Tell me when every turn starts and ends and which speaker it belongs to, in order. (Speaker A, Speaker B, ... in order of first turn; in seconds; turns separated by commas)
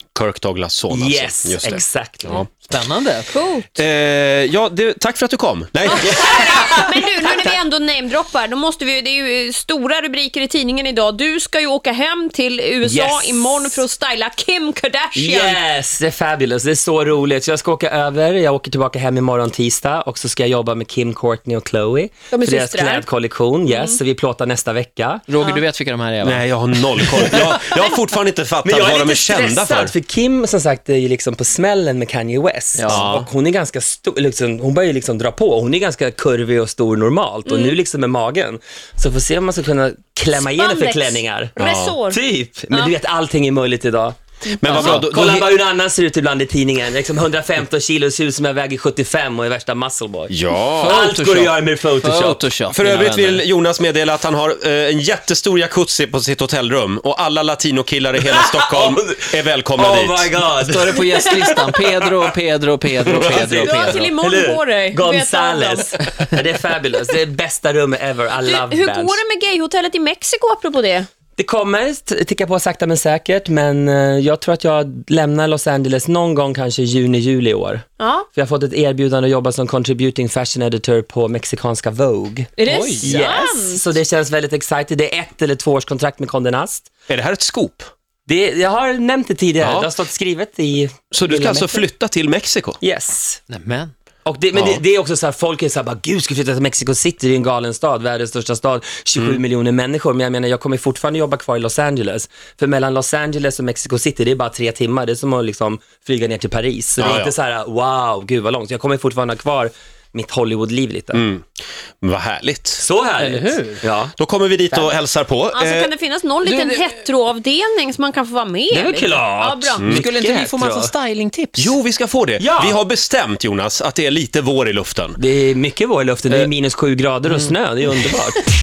Speaker A: 0.1-2.5, Speaker B: 0.9-2.4, Speaker C: 2.5-3.4, Speaker D: 3.3-3.7, Speaker A: 3.8-6.5, Speaker D: 5.9-15.6, Speaker B: 6.1-6.6, Speaker B: 12.8-13.8, Speaker B: 15.2-25.2, Speaker D: 22.3-23.1, Speaker D: 23.7-24.0, Speaker C: 25.3-27.4, Speaker A: 26.2-29.9, Speaker B: 28.6-41.6, Speaker C: 32.8-33.1, Speaker A: 32.9-33.3, Speaker D: 37.5-37.8, Speaker D: 40.3-42.2, Speaker A: 41.6-42.0, Speaker B: 42.1-44.2, Speaker A: 44.6-45.5, Speaker C: 44.7-45.0, Speaker B: 44.7-50.3, Speaker A: 50.3-51.0, Speaker C: 50.8-53.5, Speaker B: 50.8-52.4, Speaker A: 52.7-60.3, Speaker B: 58.2-62.2, Speaker C: 60.5-64.1, Speaker B: 63.0-69.2, Speaker D: 63.3-65.9, Speaker D: 68.4-71.1, Speaker B: 71.4-86.9, Speaker D: 78.0-78.3, Speaker D: 82.6-83.8, Speaker C: 82.7-83.3, Speaker A: 87.1-87.9, Speaker B: 88.3-91.9, Speaker A: 89.6-89.9, Speaker A: 91.1-92.8, Speaker B: 92.8-93.4, Speaker C: 93.5-93.9, Speaker B: 94.2-111.2, Speaker A: 94.5-94.8, Speaker A: 107.0-107.3, Speaker A: 111.1-111.5, Speaker A: 112.0-112.9, Speaker B: 112.8-114.1, Speaker C: 113.2-113.8, Speaker A: 114.2-115.9, Speaker D: 115.5-119.9, Speaker C: 116.4-117.0, Speaker B: 118.7-120.9, Speaker C: 119.8-121.8, Speaker A: 121.6-125.2, Speaker B: 122.4-122.8, Speaker B: 125.2-128.4